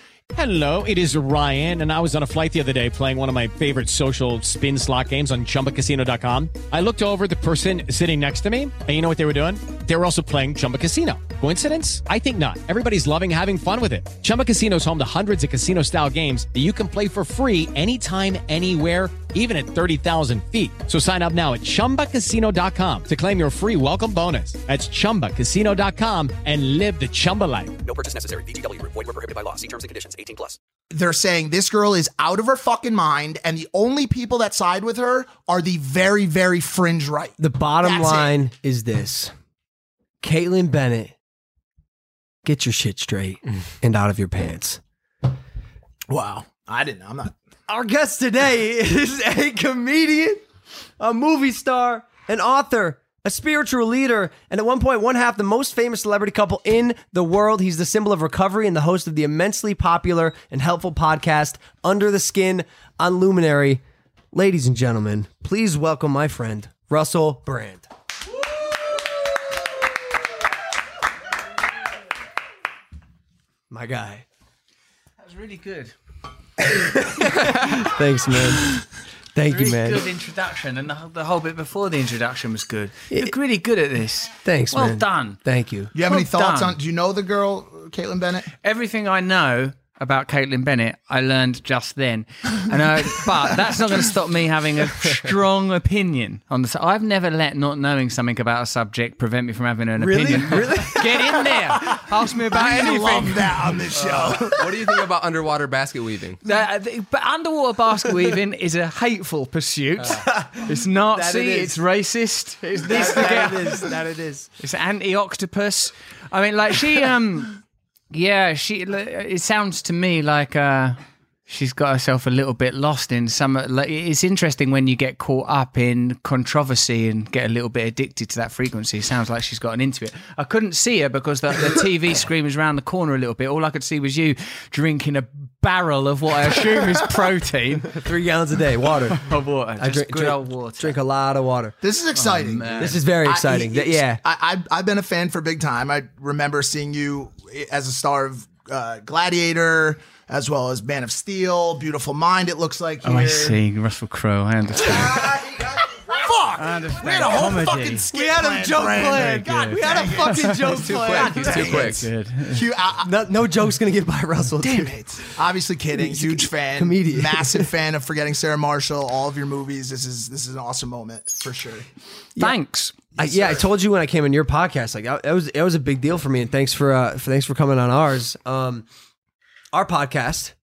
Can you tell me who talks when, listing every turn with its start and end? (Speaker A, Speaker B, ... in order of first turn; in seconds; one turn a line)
Speaker A: 0.3-27.8
Speaker B: 27.8-30.6
Speaker C: 30.9-38.4
Speaker D: 37.4-39.3
Speaker D: 40.2-41.1
Speaker D: 42.4-44.8
Speaker C: 46.1-47.4
Speaker D: 47.7-50.4
Speaker D: 51.0-67.9
Speaker D: 73.7-74.2
Speaker E: 75.2-75.9
Speaker D: 76.6-80.0
Speaker E: 79.5-85.4
Speaker D: 84.4-85.9
Speaker C: 85.9-88.5
Speaker E: 86.0-86.8
Speaker E: 88.6-103.7
Speaker D: 100.0-101.4
Speaker C: 102.4-104.8
Speaker F: 104.0-106.4
Speaker E: 106.5-113.9
Speaker D: 110.1-111.8
Speaker D: 112.8-114.5
Speaker C: 113.0-113.5
Speaker E: 114.6-117.6
Speaker E: 118.1-138.0
Speaker D: 137.9-139.3
Speaker E: 139.2-141.0
Speaker D: 139.8-141.8
Speaker C: 141.8-153.6
Speaker E: 142.2-143.0
Speaker D: 142.8-144.2
Speaker E: 153.1-155.3
Speaker C: 156.0-163.1
Speaker E: 156.6-158.1
Speaker D: 158.1-161.9
Speaker E: 159.2-162.7
Speaker F: 160.7-162.0
Speaker D: 163.0-164.9
Speaker C: 164.7-171.9
Speaker D: 166.0-167.7
Speaker E: 172.4-172.9
Speaker C: 173.2-173.6
Speaker D: 173.2-178.9
Speaker D: 179.7-180.5